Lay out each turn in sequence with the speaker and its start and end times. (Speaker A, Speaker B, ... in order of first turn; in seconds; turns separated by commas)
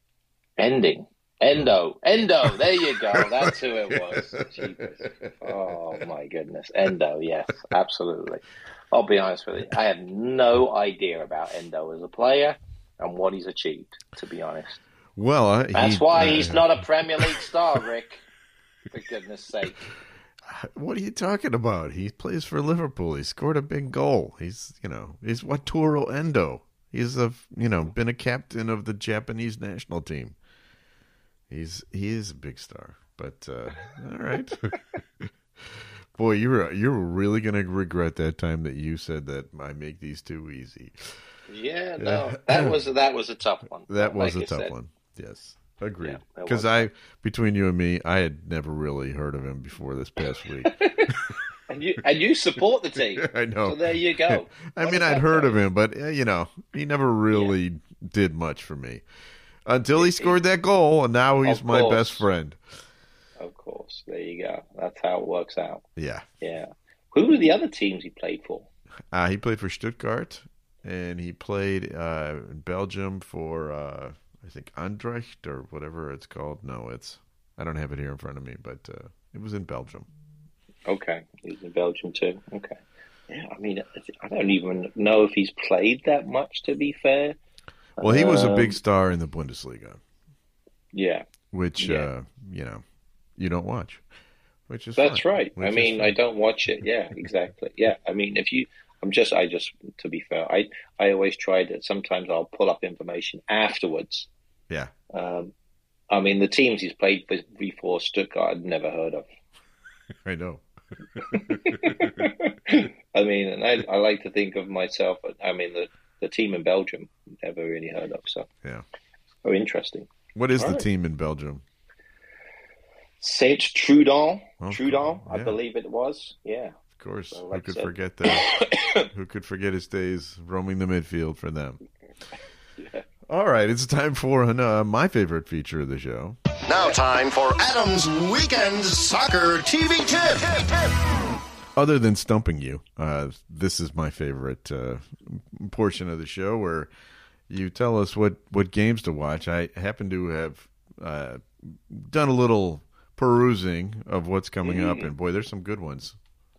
Speaker A: 0.6-14.8, Speaker B: 15.2-16.7, Speaker A: 15.7-18.2, Speaker A: 18.9-19.8, Speaker B: 20.5-30.3, Speaker B: 31.5-41.1, Speaker A: 41.5-44.7, Speaker B: 42.0-42.8, Speaker B: 43.9-51.3, Speaker A: 46.0-46.9, Speaker A: 50.6-51.1, Speaker A: 51.7-55.6, Speaker B: 53.1-59.0, Speaker B: 59.6-62.6, Speaker A: 60.0-60.4, Speaker A: 61.4-62.2, Speaker A: 63.4-65.8, Speaker B: 66.0-66.2, Speaker A: 66.4-68.7, Speaker B: 69.1-80.1, Speaker A: 80.8-82.8, Speaker A: 83.3-87.4, Speaker A: 88.0-88.8, Speaker B: 88.0-90.0, Speaker A: 90.9-91.2, Speaker B: 91.5-92.8, Speaker A: 91.8-92.1, Speaker B: 93.4-94.0, Speaker B: 94.7-96.1, Speaker A: 94.9-104.3, Speaker A: 105.1-105.5, Speaker A: 106.1-109.3, Speaker B: 110.2-110.6, Speaker B: 111.1-112.1, Speaker A: 111.2-118.5, Speaker A: 119.4-120.8, Speaker B: 120.3-121.6, Speaker A: 123.2-126.8, Speaker B: 124.6-125.6, Speaker B: 126.9-131.8, Speaker A: 127.3-129.1, Speaker A: 132.8-133.0, Speaker B: 133.3-136.4, Speaker C: 136.7-141.0, Speaker B: 141.8-146.9, Speaker B: 147.5-156.2, Speaker A: 154.6-155.1